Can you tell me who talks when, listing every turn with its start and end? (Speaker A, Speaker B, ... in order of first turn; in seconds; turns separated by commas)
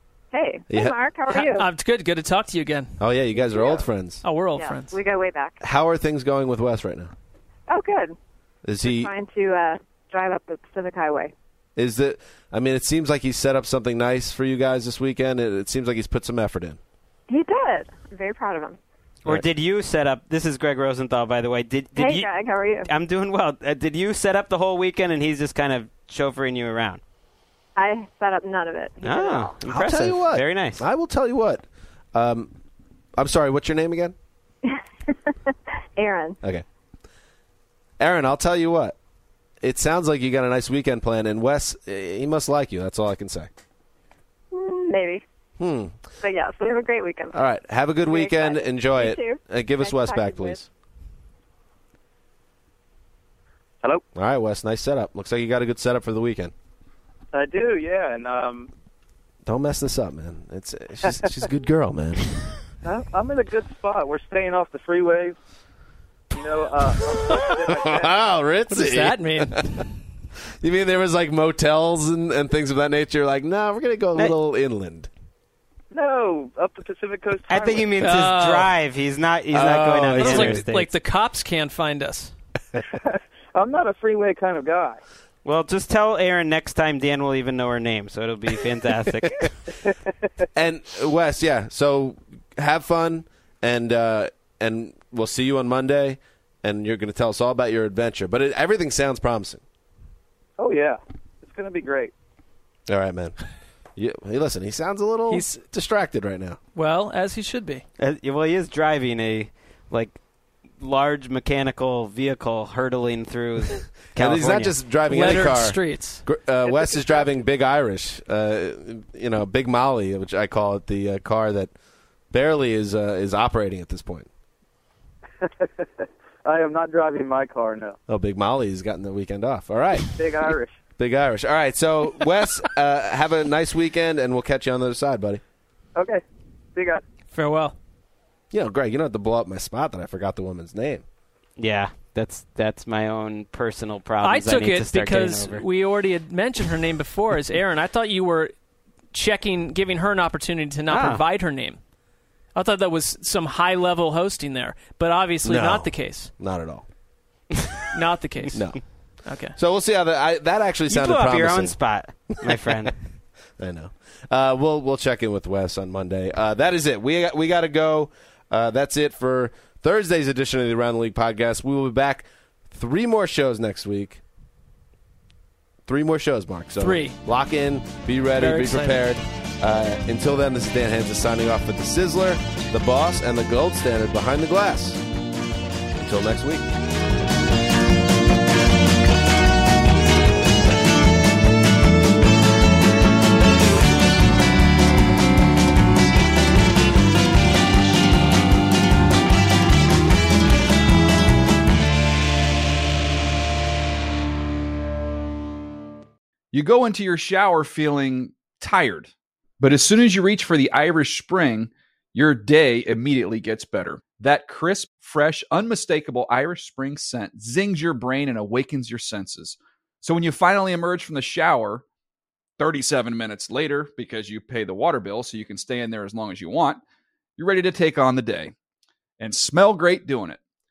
Speaker A: 0.3-1.7, Speaker B: 0.7-0.9, Speaker C: 1.3-3.0, Speaker B: 3.0-4.2, Speaker A: 3.5-3.9, Speaker C: 4.2-4.9, Speaker A: 4.5-5.6, Speaker B: 5.6-7.1, Speaker A: 7.7-8.2, Speaker B: 8.6-9.1, Speaker A: 8.8-11.3, Speaker B: 11.8-16.8, Speaker A: 17.3-18.8, Speaker D: 19.2-22.3, Speaker A: 21.9-22.9, Speaker D: 22.9-27.0, Speaker A: 27.8-29.6, Speaker D: 29.0-30.9, Speaker B: 29.7-32.5, Speaker B: 33.2-34.2, Speaker A: 34.6-35.1, Speaker A: 36.0-36.4, Speaker B: 38.0-39.0, Speaker B: 39.6-43.5, Speaker A: 44.5-45.2, Speaker B: 45.6-46.0, Speaker A: 46.2-47.4, Speaker B: 47.3-50.6, Speaker A: 48.0-50.6, Speaker B: 54.1-56.5, Speaker E: 57.3-58.7, Speaker B: 59.5-62.3, Speaker E: 62.8-65.4, Speaker E: 66.3-68.1, Speaker B: 67.3-69.9, Speaker C: 68.7-69.8, Speaker B: 70.5-75.1, Speaker E: 75.9-78.1, Speaker D: 77.5-80.9, Speaker C: 78.0-78.7, Speaker B: 79.5-80.7, Speaker C: 80.2-82.3, Speaker E: 82.8-85.0, Speaker D: 85.5-89.6, Speaker B: 90.5-99.6, Speaker E: 100.6-102.1, Speaker B: 102.9-103.4, Speaker B: 104.0-106.6, Speaker C: 105.3-105.6, Speaker C: 106.8-107.8, Speaker D: 108.0-110.2, Speaker D: 110.8-114.8, Speaker B: 114.2-121.7, Speaker C: 115.1-116.2, Speaker B: 122.3-124.3, Speaker E: 125.4-128.0, Speaker B: 128.1-130.2, Speaker E: 130.2-130.7, Speaker B: 131.0-135.4, Speaker E: 136.0-136.2, Speaker E: 136.8-137.0, Speaker C: 137.3-137.8, Speaker B: 138.5-141.1, Speaker D: 141.6-145.7, Speaker C: 144.2-148.5, Speaker C: 149.1-151.8, Speaker D: 150.9-151.2, Speaker C: 152.6-156.3, Speaker B: 155.4-156.9, Speaker C: 157.9-159.6, Speaker B: 158.5-158.8, Speaker B: 159.6-161.8, Speaker D: 160.9-163.0, Speaker B: 162.4-162.9, Speaker B: 163.6-174.2, Speaker B: 175.9-185.0, Speaker C: 176.8-177.2, Speaker C: 178.3-179.1, Speaker B: 185.9-186.7, Speaker F: 206.5-221.8, Speaker F: 222.6-226.8, Speaker F: 227.4-228.5, Speaker F: 229.2-230.4